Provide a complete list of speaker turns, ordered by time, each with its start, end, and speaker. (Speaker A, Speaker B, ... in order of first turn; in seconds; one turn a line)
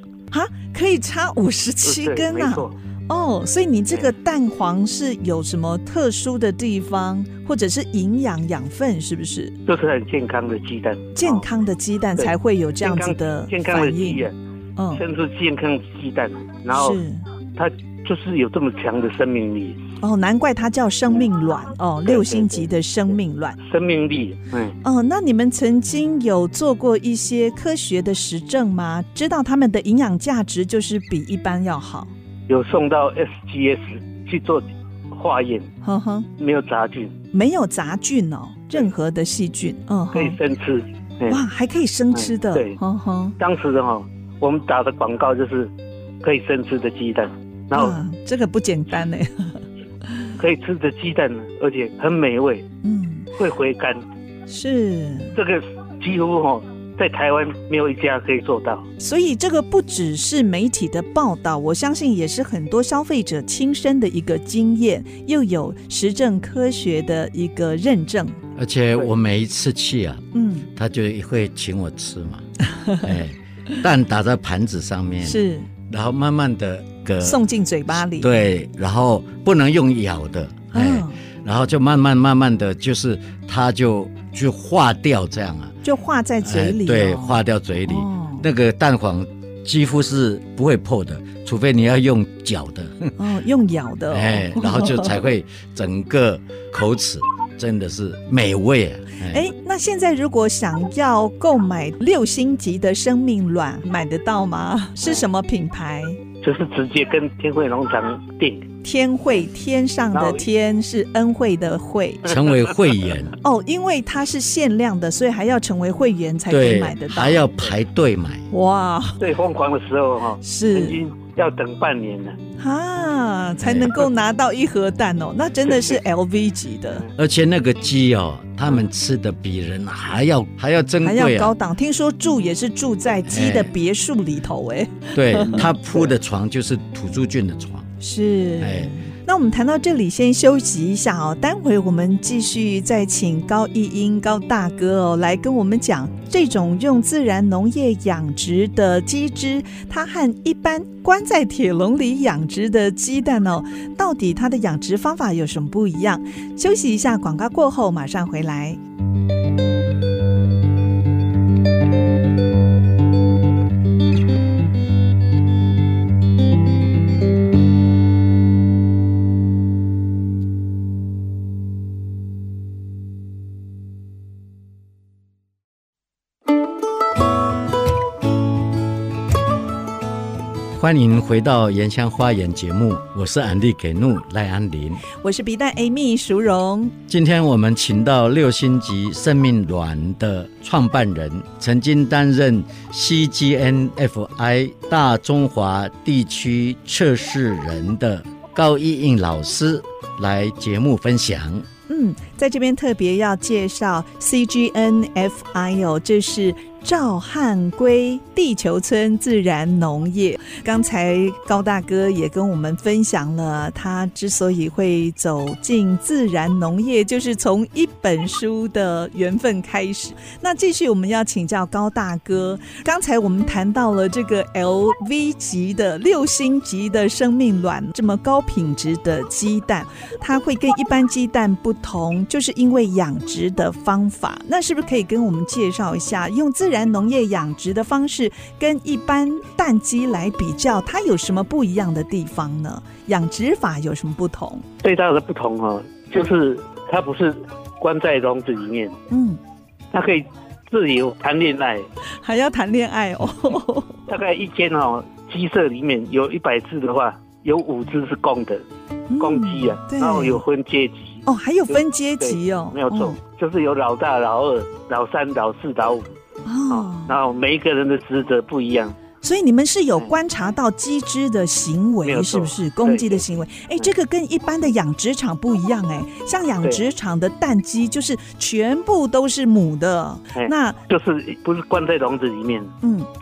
Speaker A: 0.3-9.5
Speaker B: 1.8-2.7
Speaker B: 9.7-11.4
Speaker A: 11.1-15.0
Speaker B: 12.2-14.3
Speaker B: 14.9-17.0
Speaker A: 16.7-17.2
Speaker B: 17.6-19.8
Speaker A: 20.0-23.6
Speaker B: 22.1-22.7
Speaker B: 23.6-24.8
Speaker A: 24.8-32.1
Speaker B: 32.5-35.7
Speaker A: 35.8-36.3
Speaker B: 36.4-37.1
Speaker A: 37.3-40.4
Speaker B: 40.1-41.4
Speaker A: 41.3-43.3
Speaker B: 42.1-42.8
Speaker B: 43.4-45.7
Speaker B: 46.2-48.0
Speaker A: 47.7-49.6
Speaker B: 50.4-52.6
Speaker A: 52.8-53.3
Speaker B: 53.4-54.0
Speaker A: 54.5-55.3
Speaker B: 55.3-58.9
Speaker A: 59.0-68.4
Speaker C: 68.5-72.5
Speaker A: 70.3-70.7
Speaker A: 72.7-73.0
Speaker C: 73.0-85.7
Speaker A: 75.2-75.7
Speaker A: 77.2-78.4
Speaker A: 80.7-81.2
Speaker A: 85.8-88.4
Speaker C: 86.4-93.1
Speaker A: 93.2-95.1
Speaker C: 94.1-99.5
Speaker A: 99.3-106.2
Speaker B: 105.0-105.3
Speaker B: 106.4-108.7
Speaker A: 108.8-112.3
Speaker B: 110.1-110.5
Speaker C: 112.2-113.3
Speaker A: 113.4-117.5
Speaker C: 116.5-118.5
Speaker A: 118.5-119.2
Speaker B: 119.2-122.4
Speaker A: 120.4-121.0
Speaker A: 122.6-127.0
Speaker C: 123.6-123.9
Speaker C: 127.2-131.5
Speaker A: 131.0-135.7
Speaker C: 133.2-133.7
Speaker C: 135.1-137.9
Speaker A: 138.0-158.8
Speaker C: 138.6-138.9
Speaker C: 180.7-185.0
Speaker A: 185.2-186.9
Speaker C: 187.1-201.7
Speaker A: 201.9-244.6
Speaker B: 244.8-249.0
Speaker A: 249.1-249.4
Speaker B: 249.9-251.9
Speaker A: 252.2-254.0
Speaker B: 254.1-258.6
Speaker A: 259.1-260.4
Speaker B: 259.2-266.1
Speaker A: 261.2-263.2
Speaker A: 266.4-267.1
Speaker B: 266.7-268.9
Speaker A: 269.2-280.8
Speaker B: 272.0-273.9
Speaker B: 280.3-282.7
Speaker A: 282.8-283.1